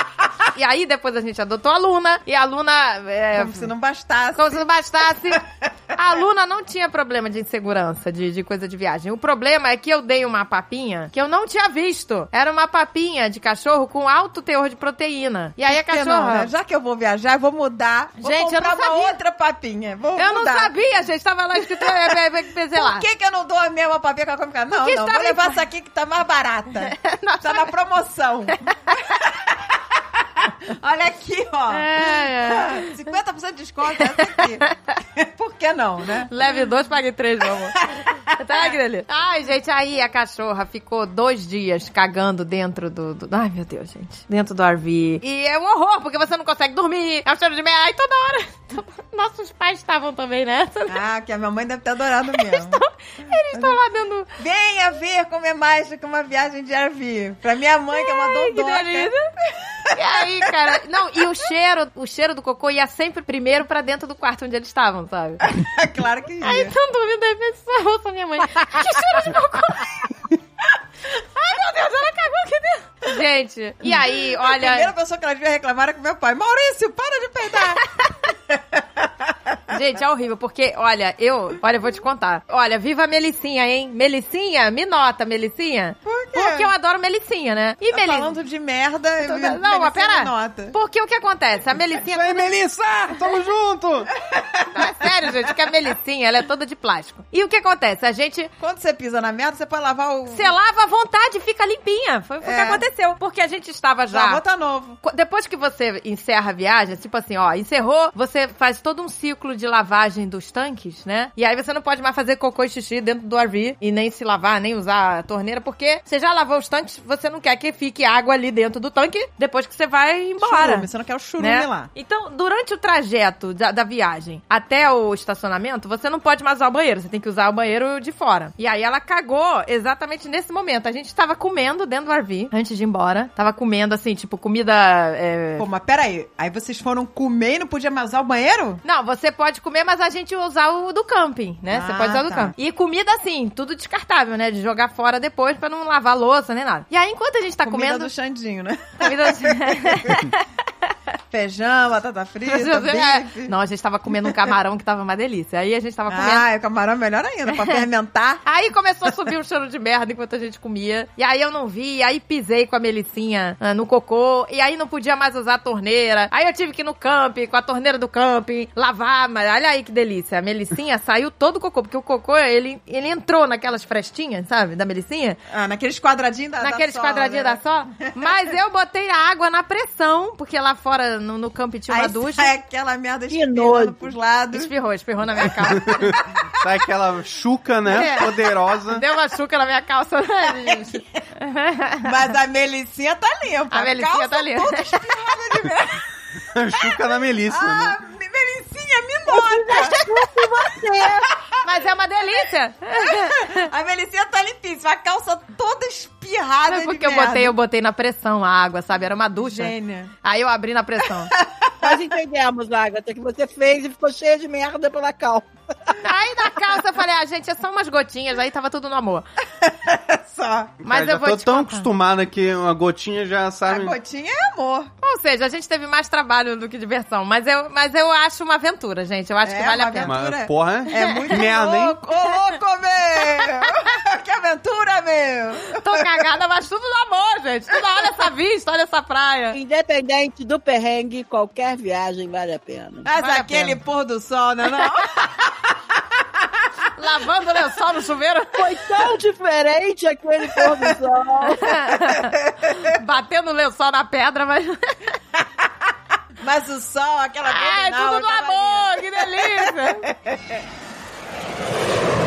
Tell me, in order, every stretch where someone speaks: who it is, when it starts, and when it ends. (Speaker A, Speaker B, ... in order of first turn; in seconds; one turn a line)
Speaker A: 0.5-3.7
Speaker B: 3.3-4.6
Speaker A: 4.3-16.5
Speaker B: 15.7-20.7
Speaker A: 18.2-19.2
Speaker A: 20.1-23.1
Speaker B: 21.7-22.1
Speaker B: 22.7-36.3
Speaker A: 24.7-25.6
Speaker A: 26.8-27.7
Speaker A: 28.6-29.0
Speaker A: 31.7-33.0
Speaker A: 34.1-34.9
Speaker A: 36.3-51.0
Speaker B: 37.8-38.3
Speaker B: 50.9-53.8
Speaker A: 52.3-54.3
Speaker B: 54.4-60.7
Speaker A: 57.9-59.3
Speaker A: 59.9-65.4
Speaker B: 65.4-66.7
Speaker A: 66.4-70.0
Speaker A: 71.1-74.9
Speaker B: 73.8-79.6
Speaker A: 79.7-88.3
Speaker B: 86.0-86.7
Speaker B: 87.9-90.8
Speaker A: 89.2-92.5
Speaker C: 92.0-94.1
Speaker B: 94.3-94.9
Speaker A: 94.7-98.5
Speaker B: 98.6-100.5
Speaker A: 100.3-104.4
Speaker B: 102.4-102.8
Speaker B: 104.1-105.0
Speaker A: 105.0-120.9
Speaker B: 120.4-121.9
Speaker A: 121.4-135.7
Speaker B: 135.6-138.8
Speaker A: 138.8-148.1
Speaker B: 141.7-142.5
Speaker B: 147.6-150.2
Speaker A: 149.0-150.9
Speaker B: 151.3-153.5
Speaker A: 152.4-156.4
Speaker B: 154.1-154.5
Speaker B: 156.1-158.4
Speaker A: 157.5-157.8
Speaker A: 158.4-175.4
Speaker B: 175.5-178.4
Speaker A: 176.6-182.5
Speaker B: 181.9-184.7
Speaker D: 183.3-184.0
Speaker A: 184.5-186.2
Speaker C: 185.8-189.0
Speaker B: 185.9-186.2
Speaker A: 187.9-188.3
Speaker A: 188.9-192.1
Speaker B: 192.0-196.0
Speaker A: 193.7-195.1
Speaker C: 196.5-198.0
Speaker B: 196.8-201.6
Speaker D: 199.3-201.3
Speaker A: 199.7-200.2
Speaker A: 201.6-203.7
Speaker B: 203.1-207.5
Speaker A: 206.7-211.3
Speaker B: 209.3-210.1
Speaker B: 211.3-211.9
Speaker D: 211.8-215.9
Speaker A: 216.0-219.2
Speaker B: 219.6-220.8
Speaker C: 220.8-223.9
Speaker A: 220.8-221.9
Speaker B: 223.7-224.9
Speaker A: 225.0-230.2
Speaker B: 229.4-236.1
Speaker C: 230.1-232.0
Speaker A: 230.9-231.3
Speaker A: 233.2-233.8
Speaker A: 235.7-239.6
Speaker D: 239.5-243.1
Speaker B: 243.0-246.2
Speaker A: 243.1-243.8
Speaker A: 246.9-249.0
Speaker D: 248.5-251.6
Speaker B: 250.6-250.9
Speaker A: 251.4-255.1
Speaker B: 252.5-252.9
Speaker B: 256.4-260.6
Speaker A: 257.4-260.1